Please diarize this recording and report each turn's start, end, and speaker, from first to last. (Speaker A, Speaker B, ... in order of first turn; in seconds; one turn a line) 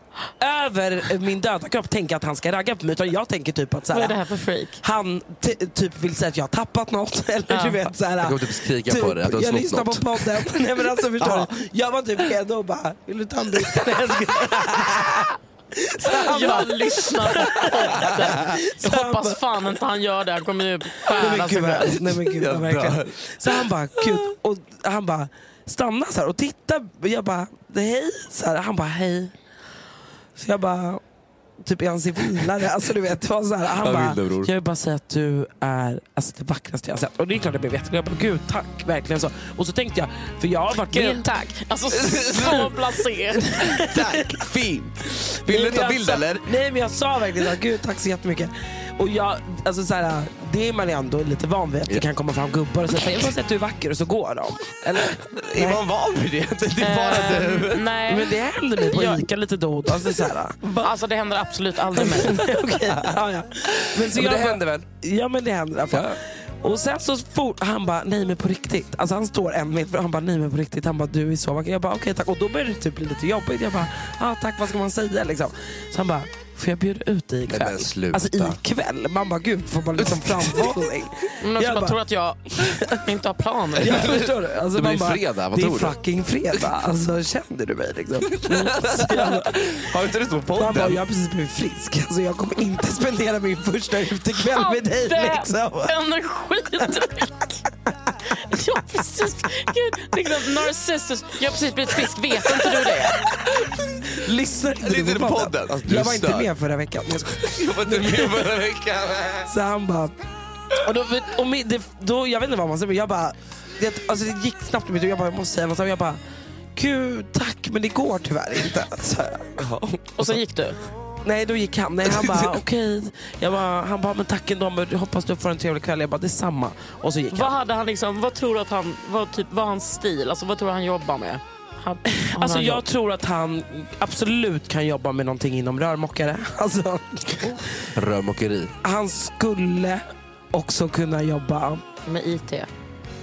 Speaker A: 0.4-4.2
Speaker B: 3.9-4.8
Speaker A: 4.8-19.4
Speaker B: 7.5-7.9
Speaker C: 8.2-10.5
Speaker C: 11.2-11.5
Speaker B: 16.1-22.0
Speaker C: 18.0-18.4
Speaker A: 21.1-29.3
Speaker C: 22.1-23.6
Speaker A: 30.4-31.0
Speaker A: 31.6-41.3
Speaker C: 33.8-34.5
Speaker B: 40.9-43.6
Speaker C: 42.1-42.7
Speaker A: 42.1-42.8
Speaker A: 43.5-44.2
Speaker C: 43.8-46.5
Speaker A: 45.4-55.8
Speaker C: 55.1-57.9
Speaker B: 56.8-58.3
Speaker A: 58.1-60.9
Speaker B: 58.9-59.2
Speaker B: 60.8-62.5
Speaker A: 61.9-82.0
Speaker C: 63.7-64.9
Speaker C: 77.5-78.6
Speaker C: 80.0-80.8
Speaker B: 81.4-84.1
Speaker A: 82.6-83.0
Speaker A: 83.8-89.9
Speaker C: 83.8-86.0
Speaker C: 88.3-91.0
Speaker A: 90.5-96.0
Speaker B: 94.4-97.5
Speaker B: 98.5-103.2
Speaker A: 104.0-108.6
Speaker C: 104.8-106.5
Speaker C: 107.2-109.5
Speaker A: 109.5-110.1
Speaker A: 110.7-116.2
Speaker A: 116.8-120.4
Speaker B: 120.2-120.8
Speaker A: 121.2-127.6
Speaker C: 122.1-122.5
Speaker B: 127.3-132.8
Speaker A: 132.1-137.6
Speaker C: 137.9-138.7
Speaker A: 138.8-141.8
Speaker B: 142.1-142.7